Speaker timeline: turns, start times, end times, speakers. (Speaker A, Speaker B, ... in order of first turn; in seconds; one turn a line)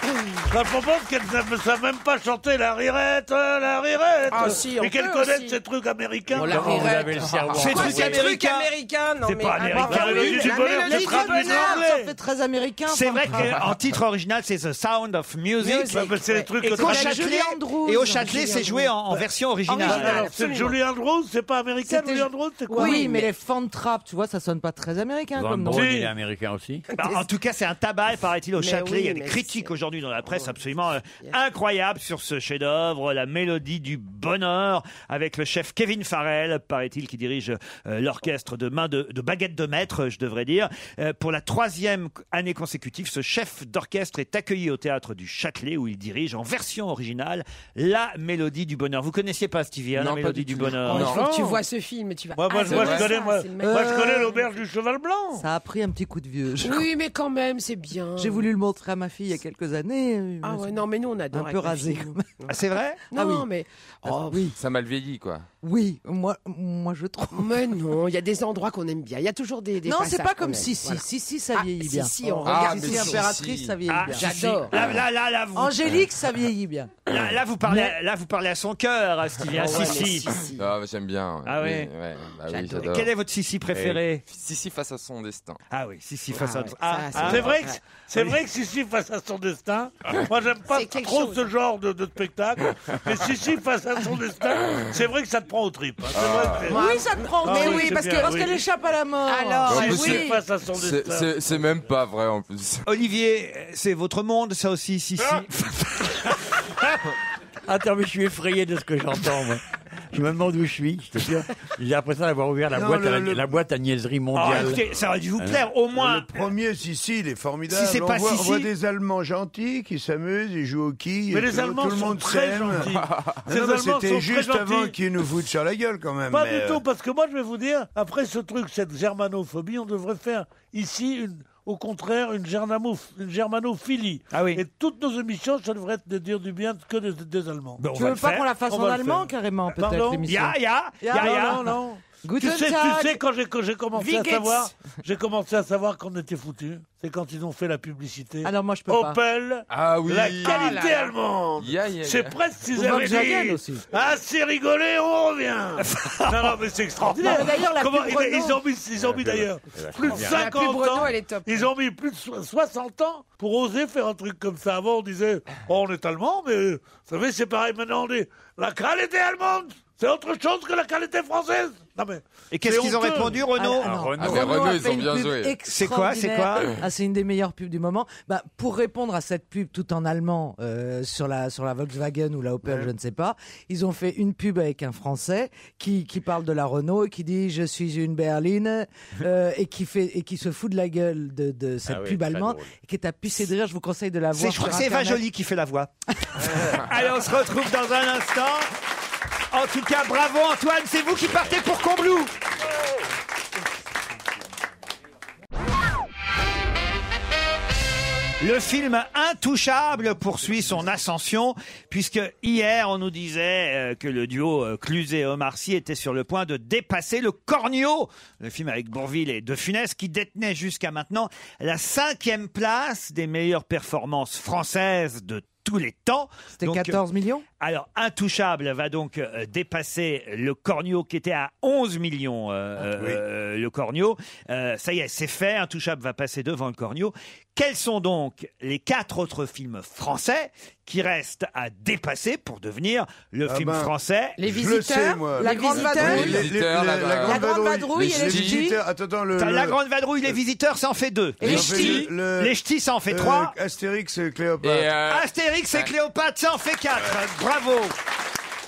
Speaker A: 0.5-7.0
Speaker B: 4.3-5.6
Speaker C: 6.3-8.3
Speaker B: 6.3-11.8
Speaker D: 7.6-11.1
Speaker E: 9.8-13.6
Speaker A: 9.8-12.1
Speaker D: 12.9-16.0
Speaker B: 15.6-17.4
Speaker A: 15.9-17.3
Speaker D: 16.6-20.3
Speaker E: 16.8-18.5
Speaker B: 18.1-19.3
Speaker E: 19.7-20.0
Speaker A: 19.8-23.3
Speaker B: 19.9-20.8
Speaker E: 21.9-26.0
Speaker B: 22.7-23.3
Speaker C: 25.3-26.9
Speaker A: 25.7-26.1
Speaker B: 26.9-27.3
Speaker D: 26.9-51.2
Speaker B: 28.6-29.7
Speaker B: 30.3-30.6
Speaker F: 50.0-51.3
Speaker B: 50.9-54.4
Speaker A: 50.9-51.6
Speaker A: 52.4-55.5
Speaker F: 52.7-53.1
Speaker E: 53.6-54.4
Speaker E: 55.4-56.9
Speaker B: 56.6-58.5
Speaker E: 58.2-62.3
Speaker B: 60.4-62.6
Speaker D: 62.5-63.0
Speaker E: 63.1-63.5
Speaker B: 63.1-64.5
Speaker E: 64.1-64.6
Speaker F: 64.6-65.5
Speaker E: 65.6-67.7
Speaker B: 67.3-73.4
Speaker E: 69.8-74.6
Speaker F: 72.4-73.8
Speaker D: 73.9-76.0
Speaker B: 74.2-74.7
Speaker E: 75.5-77.0
Speaker D: 77.1-80.3
Speaker E: 77.7-77.9
Speaker B: 79.5-80.7
Speaker F: 80.5-83.1
Speaker D: 81.5-81.9
Speaker B: 82.5-82.9
Speaker D: 82.8-84.2
Speaker C: 83.7-84.0
Speaker F: 84.2-85.6
Speaker D: 85.7-87.6
Speaker B: 86.3-87.8
Speaker A: 87.2-98.7
Speaker B: 90.7-91.5
Speaker F: 96.1-96.8
Speaker E: 96.7-100.4
Speaker B: 96.7-98.4
Speaker B: 99.3-100.3
Speaker F: 99.7-102.8
Speaker A: 99.8-101.6
Speaker D: 102.9-106.9
Speaker C: 107.7-114.8
Speaker G: 112.7-113.5
Speaker D: 114.3-116.3
Speaker C: 115.4-115.7
Speaker G: 116.0-122.9
Speaker D: 117.7-118.7
Speaker A: 121.3-125.0
Speaker G: 123.5-126.8
Speaker A: 126.3-137.8
Speaker D: 134.3-134.6
Speaker D: 137.8-138.5
Speaker E: 137.9-143.2
Speaker A: 138.7-140.3
Speaker D: 140.3-141.7
Speaker A: 141.1-173.5
Speaker E: 143.9-144.6
Speaker E: 148.4-149.2
Speaker F: 149.7-150.9
Speaker B: 150.4-151.1
Speaker F: 151.6-152.4
Speaker E: 152.7-153.9
Speaker D: 155.8-156.5
Speaker E: 157.1-158.6
Speaker C: 159.0-160.6
Speaker B: 160.3-161.7
Speaker D: 172.5-173.9
Speaker E: 173.6-195.2
Speaker C: 173.8-174.9
Speaker F: 174.2-175.6
Speaker D: 175.7-176.7
Speaker G: 182.7-182.9
Speaker C: 191.8-192.7
Speaker D: 194.3-195.9
Speaker D: 196.7-198.7
Speaker D: 199.5-202.3
Speaker D: 208.4-227.0
Speaker E: 226.6-227.4
Speaker D: 227.6-244.4
Speaker G: 233.0-233.2
Speaker G: 243.5-249.8
Speaker B: 244.4-246.5
Speaker E: 245.3-246.5
Speaker F: 245.8-248.7
Speaker E: 247.3-248.8
Speaker B: 247.3-248.3
Speaker D: 249.4-253.5
Speaker F: 251.4-252.1
Speaker G: 251.4-254.9
Speaker B: 251.5-252.0
Speaker F: 254.6-255.9
Speaker D: 255.1-257.9